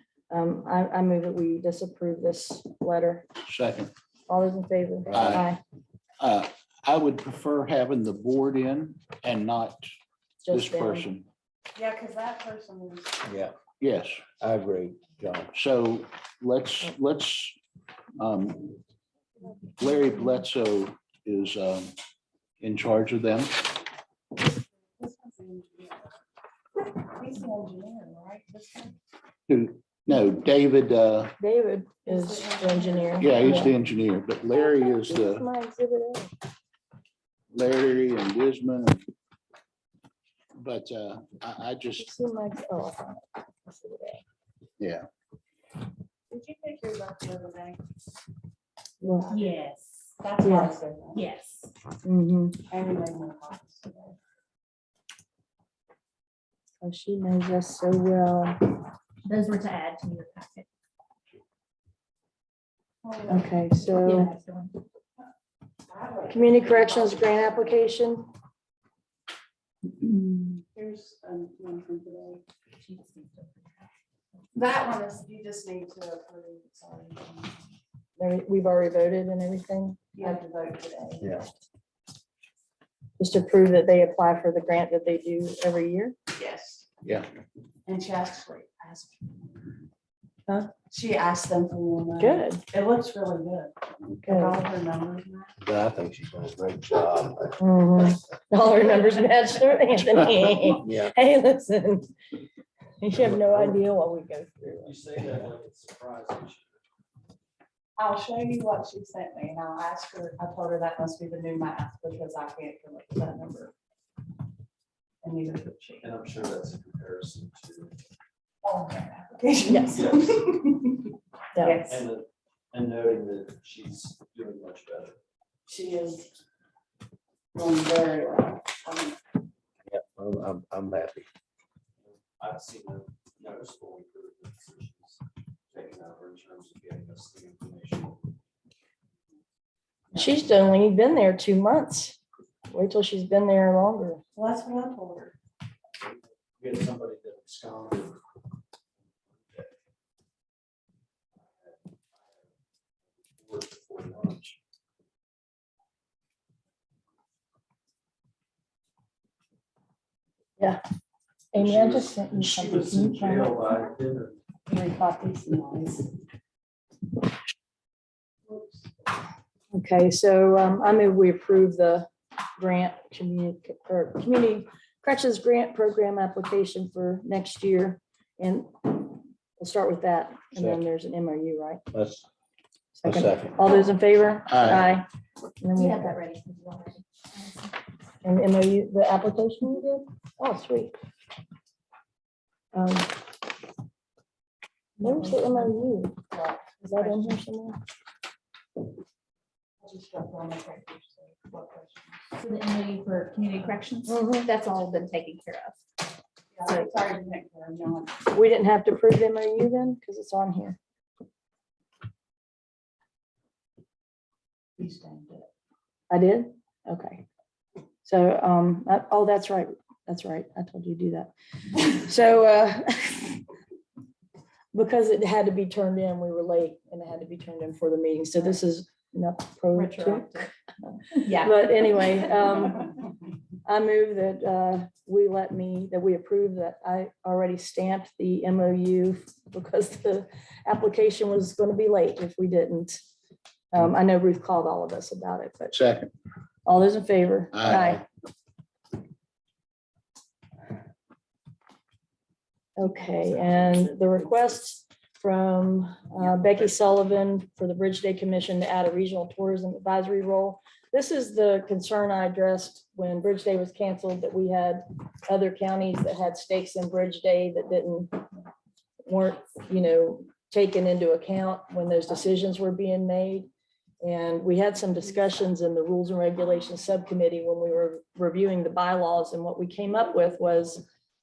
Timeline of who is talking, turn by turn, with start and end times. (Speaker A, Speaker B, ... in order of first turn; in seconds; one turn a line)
Speaker A: 0.3-3.3
Speaker B: 3.5-3.9
Speaker A: 4.3-5.6
Speaker C: 5.0-5.4
Speaker B: 6.2-9.8
Speaker A: 10.4-11.1
Speaker B: 10.5-11.2
Speaker D: 11.7-13.2
Speaker C: 13.2-13.5
Speaker B: 13.8-14.3
Speaker C: 14.4-15.5
Speaker B: 15.6-17.5
Speaker B: 18.2-18.7
Speaker B: 19.8-21.9
Speaker B: 22.6-23.5
Speaker D: 24.4-26.2
Speaker D: 26.8-29.0
Speaker B: 29.5-31.3
Speaker A: 31.4-33.7
Speaker D: 32.0-33.6
Speaker B: 33.2-35.4
Speaker A: 35.0-36.3
Speaker B: 37.5-39.0
Speaker B: 40.6-42.0
Speaker A: 42.0-44.2
Speaker D: 46.3-47.8
Speaker D: 49.0-49.5
Speaker A: 49.0-49.3
Speaker E: 49.3-50.1
Speaker D: 50.2-51.2
Speaker A: 50.4-50.7
Speaker E: 51.1-51.7
Speaker A: 52.0-52.6
Speaker D: 52.7-54.1
Speaker A: 56.8-58.7
Speaker E: 59.2-60.7
Speaker D: 63.0-63.6
Speaker A: 63.3-64.3
Speaker E: 64.0-64.7
Speaker D: 65.9-67.8
Speaker A: 66.3-68.3
Speaker E: 69.9-70.6
Speaker D: 70.7-72.4
Speaker E: 72.7-73.9
Speaker D: 74.5-77.6
Speaker A: 78.2-80.4
Speaker D: 80.2-81.4
Speaker A: 83.2-86.2
Speaker D: 86.3-86.9
Speaker D: 87.8-89.8
Speaker D: 90.9-95.5
Speaker A: 92.2-92.6
Speaker A: 94.1-94.6
Speaker C: 95.6-97.5
Speaker A: 97.6-102.1
Speaker C: 100.8-101.1
Speaker A: 103.0-105.0
Speaker C: 103.1-103.8
Speaker F: 104.8-106.8
Speaker D: 108.0-113.7
Speaker D: 115.2-116.1
Speaker F: 116.0-118.0
Speaker D: 118.6-122.0
Speaker F: 119.9-120.3
Speaker A: 121.5-121.8
Speaker F: 121.9-125.2
Speaker D: 125.7-126.3
Speaker D: 127.5-129.2
Speaker C: 129.8-131.3
Speaker F: 132.1-135.2
Speaker F: 135.7-138.3
Speaker A: 140.1-142.2
Speaker A: 142.7-144.2
Speaker D: 144.3-145.3
Speaker F: 146.0-148.2
Speaker F: 149.4-149.7
Speaker F: 151.6-152.4
Speaker F: 153.2-154.6
Speaker A: 161.5-163.7
Speaker F: 161.5-164.4
Speaker D: 164.7-166.1
Speaker D: 168.5-168.9
Speaker A: 169.7-181.8
Speaker C: 180.5-180.8
Speaker C: 181.9-182.2
Speaker A: 182.9-185.1
Speaker C: 183.0-183.6
Speaker A: 185.6-186.2
Speaker E: 185.7-187.7
Speaker A: 188.2-190.9
Speaker A: 192.7-193.2
Speaker A: 195.0-196.2
Speaker D: 195.0-195.7
Speaker D: 196.3-197.3
Speaker A: 196.8-197.8
Speaker D: 199.8-202.3
Speaker E: 202.4-205.8
Speaker A: 204.1-204.5
Speaker D: 206.5-208.2
Speaker A: 208.3-210.8
Speaker D: 214.8-215.5
Speaker A: 216.1-217.2
Speaker A: 218.0-223.4
Speaker A: 224.7-232.9
Speaker E: 229.7-230.5
Speaker E: 231.2-232.6
Speaker A: 233.6-243.0
Speaker A: 243.7-245.8
Speaker B: 245.7-246.1
Speaker A: 246.7-248.0
Speaker B: 247.6-247.9
Speaker A: 252.8-268.2
Speaker A: 269.1-273.5
Speaker A: 274.0-280.8